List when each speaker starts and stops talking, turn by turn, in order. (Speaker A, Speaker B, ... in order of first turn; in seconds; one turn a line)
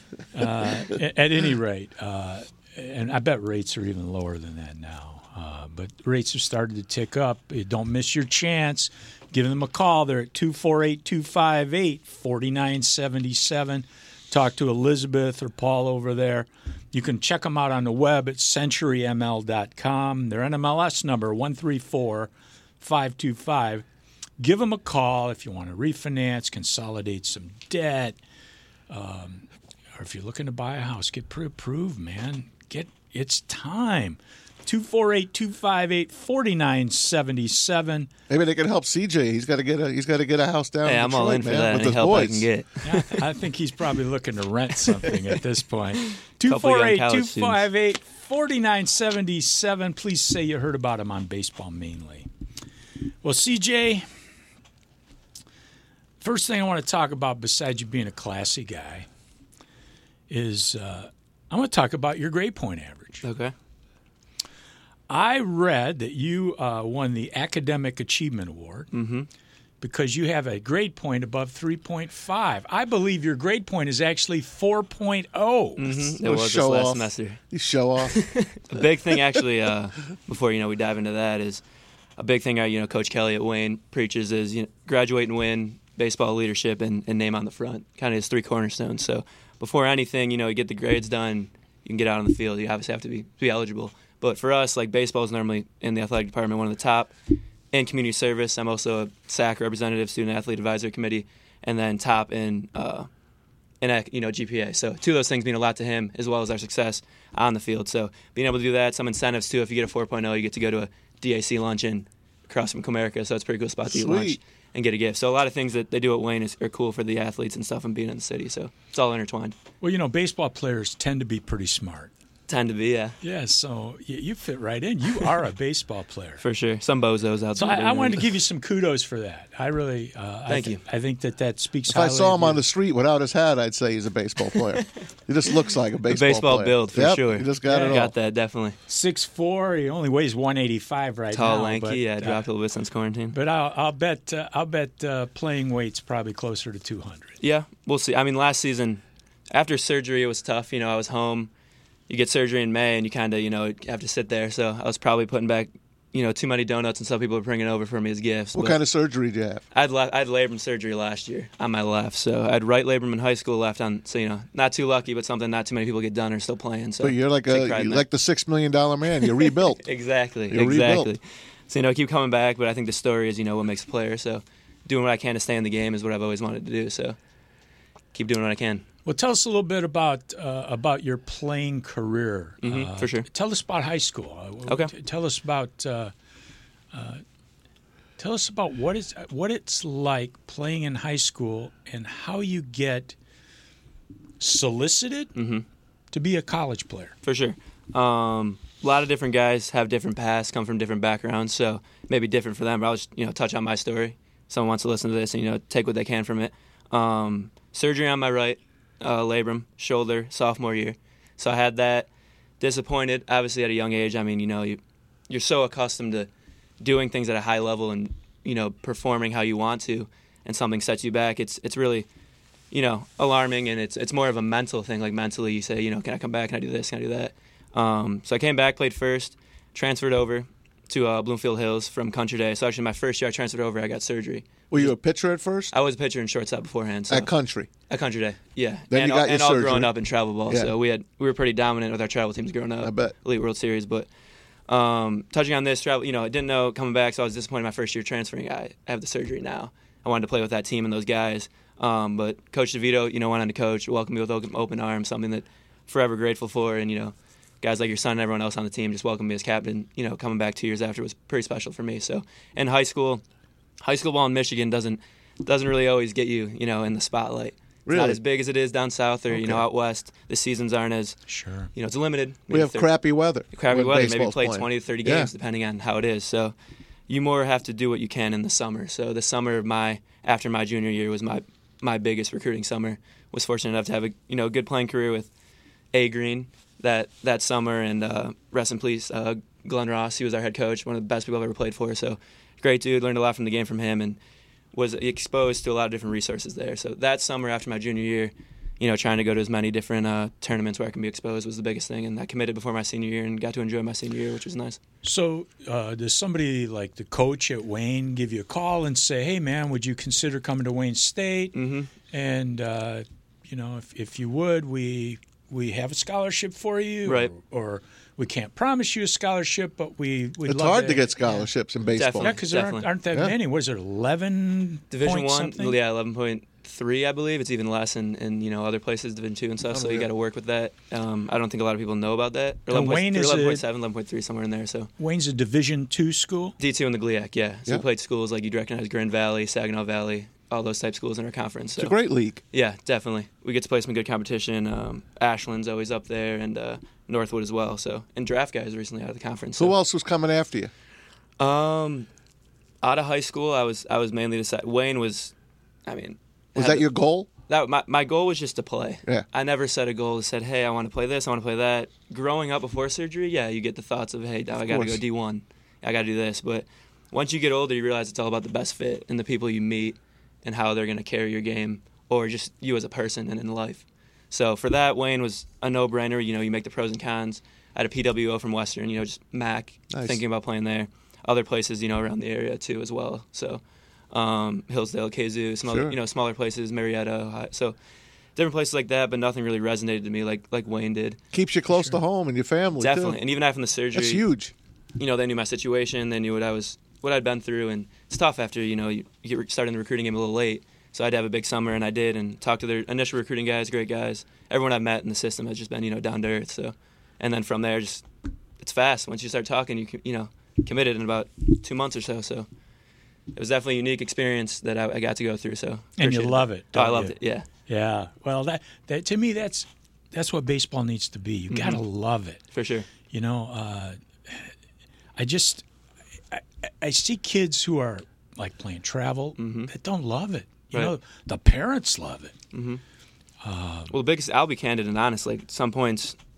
Speaker A: 0.3-23.9
Speaker A: 24.4-28.2
Speaker A: 28.9-38.1
Speaker B: 38.3-42.5
Speaker C: 40.9-43.2
Speaker A: 42.8-52.3
Speaker C: 46.4-47.6
Speaker A: 53.2-54.1
Speaker A: 56.2-59.1
Speaker A: 60.3-63.2
Speaker C: 63.2-63.5
Speaker A: 65.1-68.9
Speaker C: 68.9-69.3
Speaker A: 69.8-76.1
Speaker C: 75.8-77.4
Speaker B: 76.1-78.2
Speaker C: 78.0-81.6
Speaker C: 82.2-97.1
Speaker C: 97.7-103.1
Speaker C: 103.8-119.6
Speaker B: 113.9-114.4
Speaker A: 119.8-122.1
Speaker C: 122.5-123.2
Speaker A: 123.2-126.4
Speaker C: 126.4-128.3
Speaker A: 127.6-132.6
Speaker C: 130.5-130.8
Speaker B: 131.9-138.1
Speaker C: 136.1-138.8
Speaker A: 137.7-138.0
Speaker A: 138.9-142.5
Speaker C: 141.3-143.4
Speaker A: 143.3-147.3
Speaker C: 147.4-151.5
Speaker C: 152.1-158.8
Speaker B: 158.6-159.6
Speaker C: 159.7-168.0
Speaker B: 167.0-169.8
Speaker C: 169.2-177.2
Speaker B: 170.5-171.1
Speaker C: 178.1-178.9
Speaker A: 179.1-186.1
Speaker C: 182.6-183.3
Speaker C: 184.7-184.9
Speaker A: 186.9-187.2
Speaker A: 188.2-193.2
Speaker A: 194.4-195.3
Speaker C: 195.4-195.6
Speaker A: 196.1-197.2
Speaker C: 197.2-212.1
Speaker C: 212.6-216.3
Speaker C: 216.8-222.1
Speaker C: 222.7-234.9
Speaker B: 234.7-235.7
Speaker C: 235.7-237.3
Speaker B: 237.1-237.7
Speaker C: 237.9-244.1
Speaker B: 238.9-239.9
Speaker B: 242.8-243.1
Speaker C: 244.7-263.2
Speaker C: 263.8-271.2
Speaker B: 267.9-268.2
Speaker B: 269.3-269.6
Speaker A: 271.3-271.7
Speaker C: 271.8-272.9
Speaker B: 272.5-275.3
Speaker C: 273.5-276.5
Speaker C: 277.1-285.3
Speaker C: 285.9-294.2
Speaker C: 294.7-304.8
Speaker A: 305.0-311.6
Speaker C: 311.5-311.9
Speaker A: 312.1-321.5
Speaker C: 317.1-317.3
Speaker B: 320.4-322.4
Speaker C: 321.9-322.9
Speaker A: 322.2-325.8
Speaker C: 324.9-334.9
Speaker B: 329.7-330.1
Speaker A: 332.7-333.6
Speaker A: 335.0-336.6
Speaker C: 336.6-341.9
Speaker B: 341.8-342.4
Speaker C: 342.5-349.8
Speaker B: 349.6-350.7
Speaker C: 351.4-352.1
Speaker C: 352.8-355.3
Speaker C: 355.9-356.9
Speaker B: 356.6-357.3
Speaker C: 357.5-387.8
Speaker B: 364.6-365.0
Speaker B: 379.9-380.2
Speaker B: 385.6-385.9
Speaker C: 388.4-391.2
Speaker B: 391.3-393.2
Speaker A: 391.7-392.0
Speaker C: 392.8-394.2
Speaker B: 393.9-394.5
Speaker C: 395.0-408.1
Speaker C: 408.6-412.5
Speaker C: 413.4-417.5
Speaker A: 416.0-417.2
Speaker A: 417.7-422.4
Speaker C: 421.5-421.8
Speaker C: 422.5-422.9
Speaker A: 423.1-424.5
Speaker A: 425.2-425.6
Speaker A: 426.3-432.4
Speaker C: 429.4-429.7
Speaker C: 432.5-432.8
Speaker A: 433.4-433.9
Speaker C: 433.9-436.2